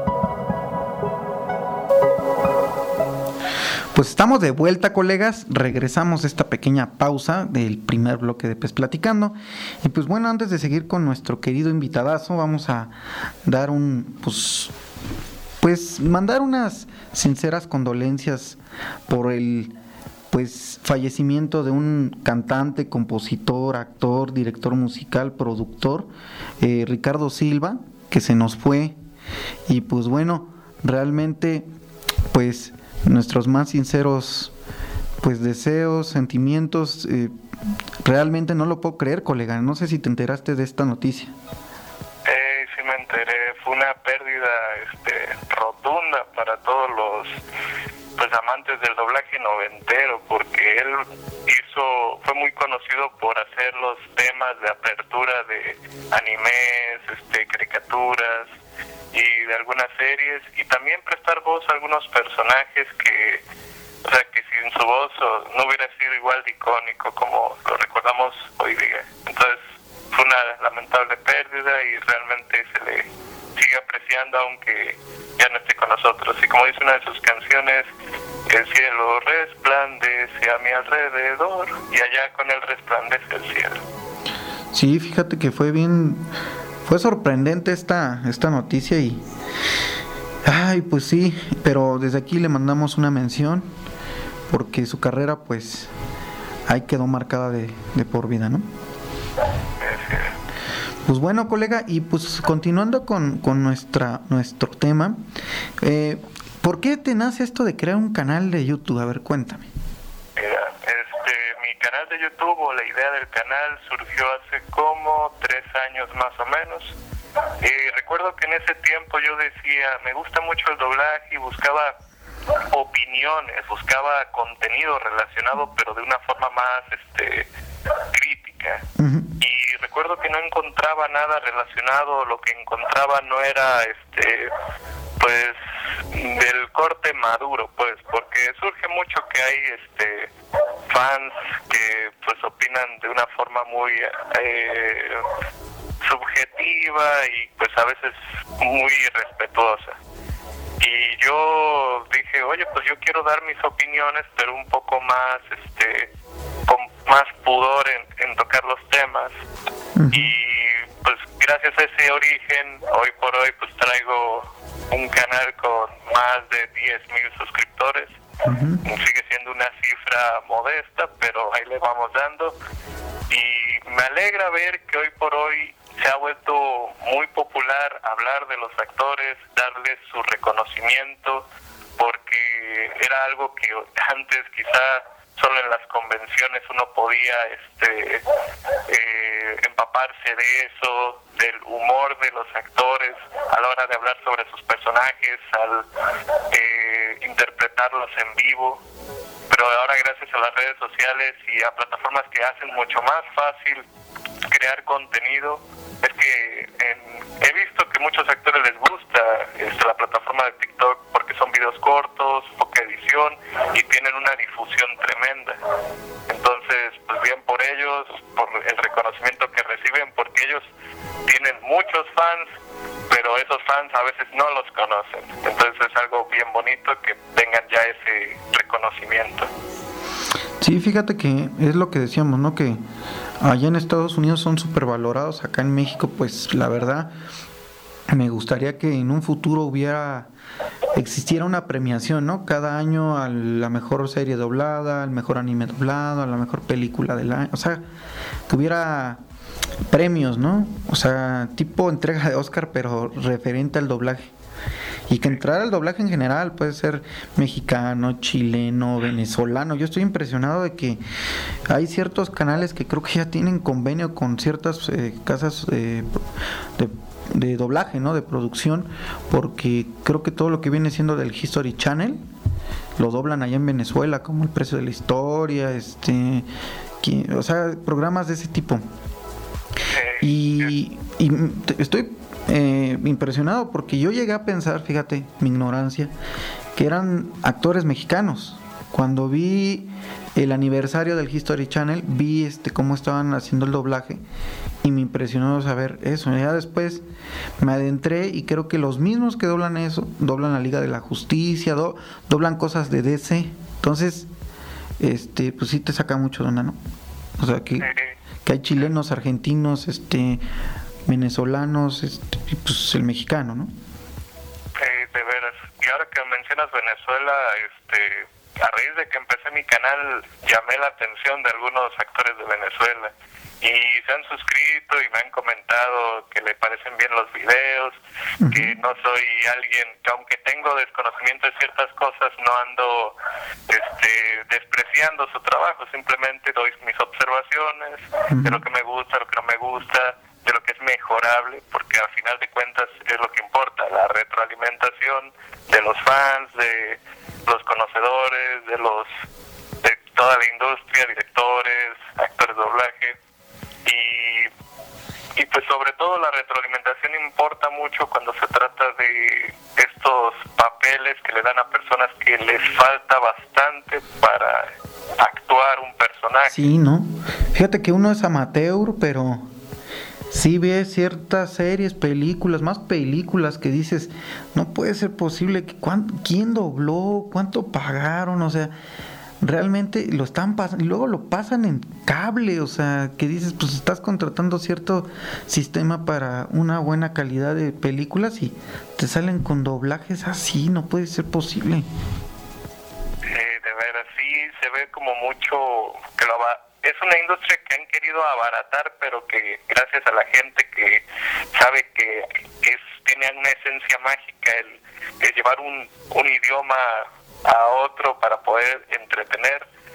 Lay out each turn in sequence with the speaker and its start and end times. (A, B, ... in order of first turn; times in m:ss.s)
0:03.9-0:14.7 A
0:15.6-0:19.7 A
0:20.3-0:26.1 A
0:26.6-0:29.0 A
0:29.7-0:31.7 A
0:32.3-0:34.5 A
0:35.2-0:37.3 A
0:38.0-0:41.3 A
0:42.3-0:47.4 B
0:48.2-0:58.5 B
0:59.1-1:03.4 B
1:04.0-1:17.9 B
1:18.5-1:23.8 B
1:24.7-1:26.3 A
1:26.8-1:29.2 A
1:30.4-1:33.7 A
1:34.5-1:35.9 A
1:36.7-1:38.7 A
1:39.8-1:40.4 B
1:41.1-1:45.2 A
1:45.8-1:49.7 A
1:50.4-1:57.0 B
1:57.6-2:02.0 B
2:02.7-2:07.5 B
2:08.1-2:08.8 B
2:09.0-2:09.3 A
2:09.4-2:14.5 B
2:15.2-2:20.3 B
2:20.9-2:25.2 B
2:26.0-2:30.0 B
2:30.8-2:36.1 B
2:36.7-2:39.4 B
2:40.0-2:40.3 A
2:40.1-2:48.2 B
2:48.4-2:48.8 A
2:48.8-2:52.6 B
2:53.3-3:01.5 B
3:02.0-3:08.2 B
3:08.9-3:15.9 B
3:16.5-3:18.8 B
3:19.5-3:23.8 B
3:24.5-3:35.6 B
3:36.3-3:40.7 B
3:41.3-3:42.5 B
3:43.1-3:49.5 B
3:50.6-3:52.8 A
3:53.4-3:57.1 A
3:58.1-4:00.3 A
4:01.0-4:07.8 A
4:08.5-4:09.2 A
4:09.9-4:14.3 A
4:15.1-4:21.0 A
4:21.7-4:26.2 A
4:26.8-4:32.2 A
4:33.0-4:36.5 A
4:37.0-4:38.8 A
4:39.9-4:40.7 B
4:40.2-4:46.1 A
4:46.8-4:54.2 A
4:54.8-4:57.0 A
4:57.6-5:04.3 A
5:05.0-5:06.8 A
5:07.4-5:07.9 A
5:07.8-5:08.1 B
5:08.4-5:10.4 A
5:11.1-5:13.7 A
5:14.8-5:28.0 B
5:28.4-5:28.7 A
5:28.5-5:33.2 B
5:33.7-5:49.1 B
5:38.3-5:38.6 A
5:49.8-5:53.2 B
5:53.8-5:54.5 B
5:55.4-6:06.7 B
6:06.5-6:09.5 A
6:10.3-6:18.7 A
6:19.4-6:31.9 A
6:33.2-6:49.7 B